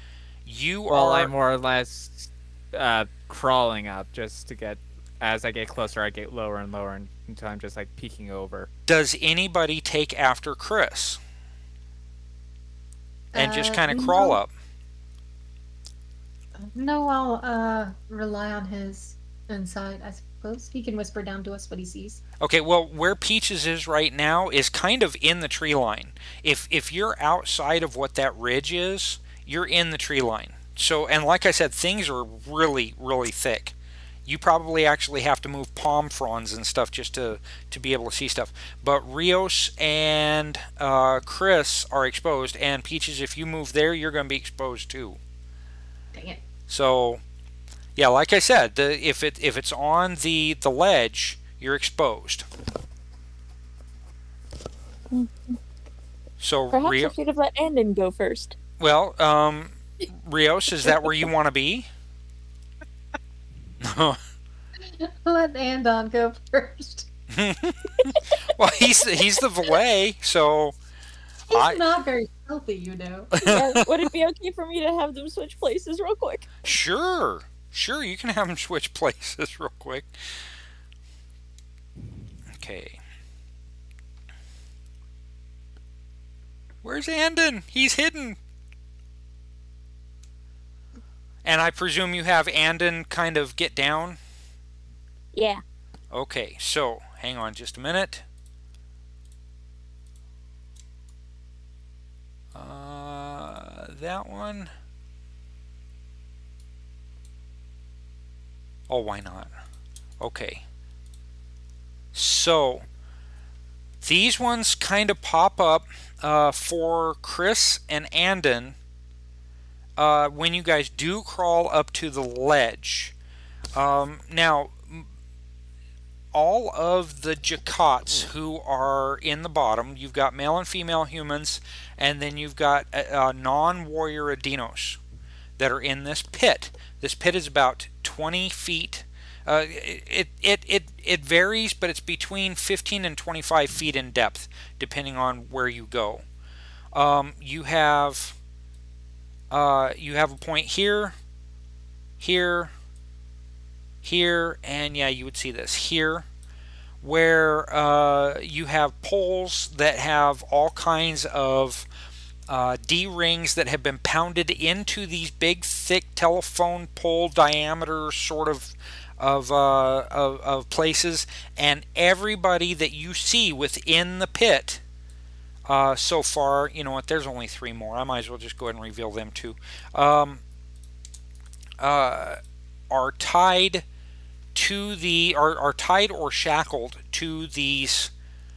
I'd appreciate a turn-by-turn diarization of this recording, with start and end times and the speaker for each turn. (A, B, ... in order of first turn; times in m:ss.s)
0:00.5-0:01.3 A
0:00.9-0:08.7 B
0:08.9-0:11.2 A
0:13.3-0:14.4 C
0:13.4-0:14.5 A
0:16.6-0:22.2 C
0:22.4-0:33.8 A
0:34.3-0:45.2 A
0:46.1-0:46.4 C
0:46.7-0:47.2 A
0:48.0-0:52.4 A
0:55.1-0:55.6 D
0:56.4-0:57.1 A
0:56.7-0:58.6 D
0:58.8-1:01.9 A
1:03.8-1:04.2 A
1:05.0-1:07.1 C
1:07.3-1:10.8 A
1:11.5-1:13.4 C
1:11.5-1:11.8 A
1:13.4-1:14.1 A
1:13.4-1:16.5 D
1:16.6-1:20.4 A
1:22.5-1:23.0 A
1:26.8-1:28.4 A
1:31.4-1:34.2 A
1:35.3-1:35.6 D
1:36.1-1:38.2 A
1:42.5-1:44.7 A
1:48.9-1:49.5 A
1:50.2-1:50.6 A
1:52.1-1:52.9 A
1:54.0-1:58.8 A
2:00.0-2:03.1 A
2:03.8-2:05.1 A
2:06.3-2:15.0 A
2:15.6-2:26.2 A
2:26.9-2:28.4 A
2:29.5-2:31.1 A
2:32.2-2:32.7 A
2:34.0-2:36.3 A
2:37.0-2:41.9 A
2:42.5-2:54.8 A
2:55.7-3:00.4 A
3:01.8-3:02.4 A
3:02.9-3:03.8 A
3:04.6-3:08.1 A